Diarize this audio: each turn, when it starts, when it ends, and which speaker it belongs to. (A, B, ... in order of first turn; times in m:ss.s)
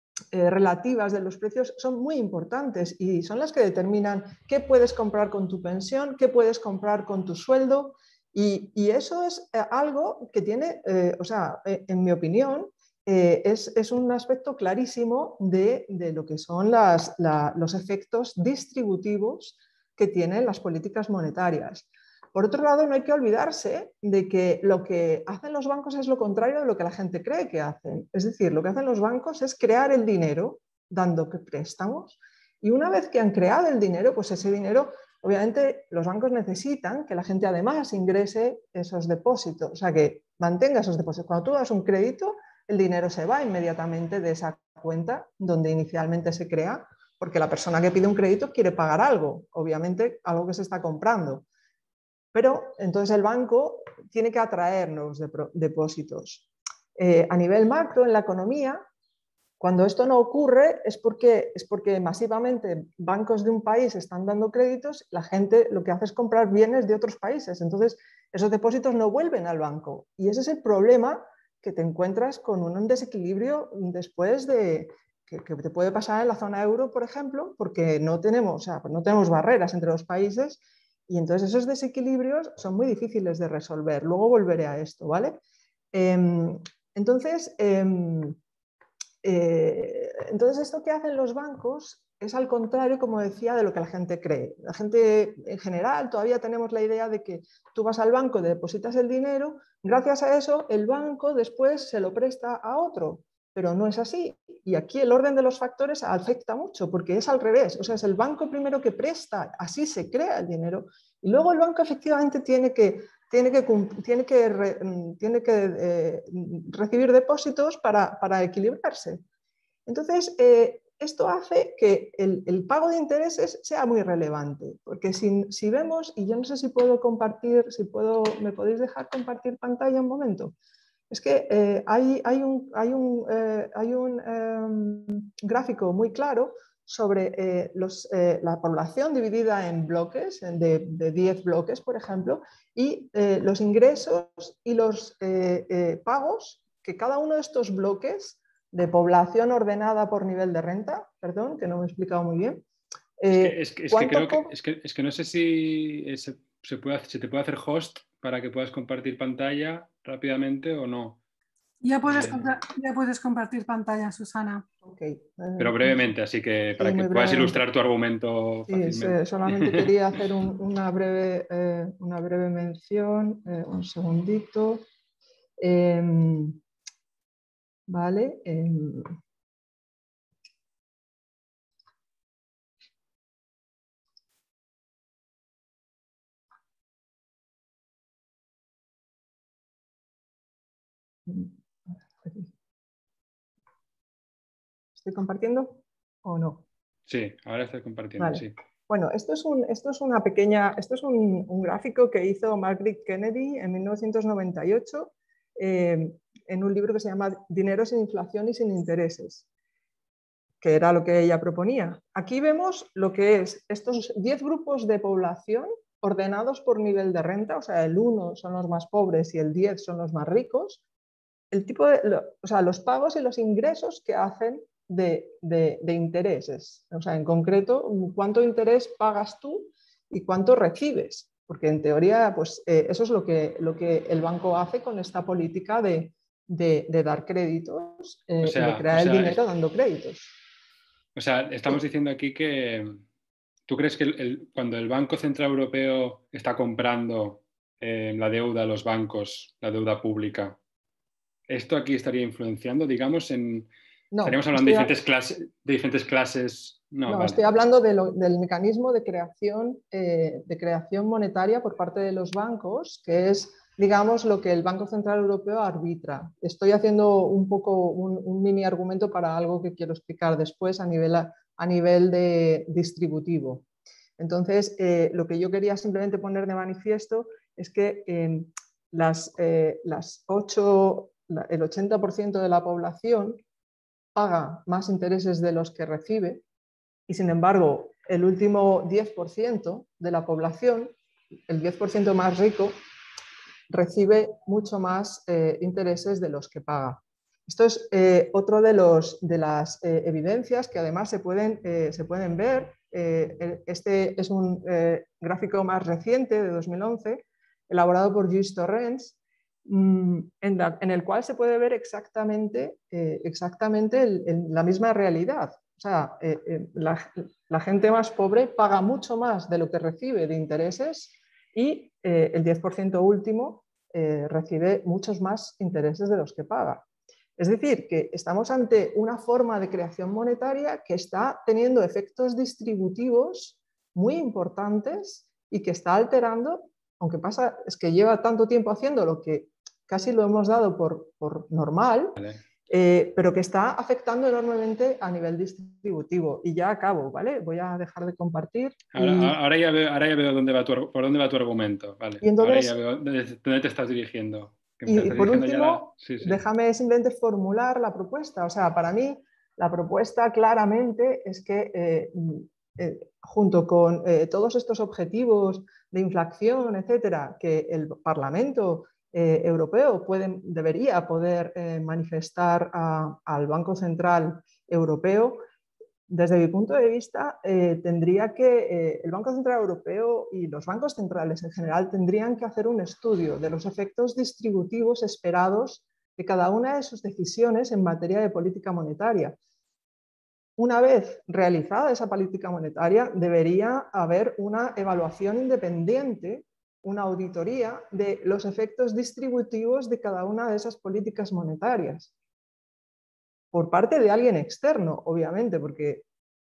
0:00.3-0:51.4 A
0:52.3-0:58.8 A
0:59.6-1:25.4 A
1:25.9-1:28.4 A
1:29.2-1:59.2 A
1:59.9-2:10.5 A
2:11.1-2:32.6 A
2:33.2-2:34.5 A
2:33.3-2:41.2 B
2:41.8-2:44.6 C
2:42.1-2:42.4 B
2:44.8-2:46.0 A
2:45.6-2:49.9 B
2:46.8-2:47.6 A
2:48.7-2:54.8 A
2:55.6-2:56.6 A
2:57.9-2:59.2 A
3:11.3-3:11.6 A
3:12.2-3:12.5 A
3:15.0-3:16.6 A
3:17.1-3:18.5 B
3:18.2-3:29.4 A
3:30.6-3:40.8 A
3:41.5-4:00.3 A
3:58.4-3:59.4 B
4:01.1-4:03.0 B
4:03.7-4:10.6 B
4:11.5-4:13.7 B
4:14.1-4:14.9 A
4:14.2-4:17.4 B
4:17.0-4:33.6 A
4:34.2-4:43.4 A
4:44.1-4:46.4 A
4:47.1-4:50.9 A
4:51.5-4:52.7 A
4:53.7-5:09.1 A
5:09.6-5:26.8 A
5:27.4-5:49.3 A
5:48.9-5:56.4 B
5:52.2-5:52.8 A
5:54.9-6:15.4 A
6:16.1-6:29.4 A
6:30.6-6:42.1 A
6:43.5-6:46.0 A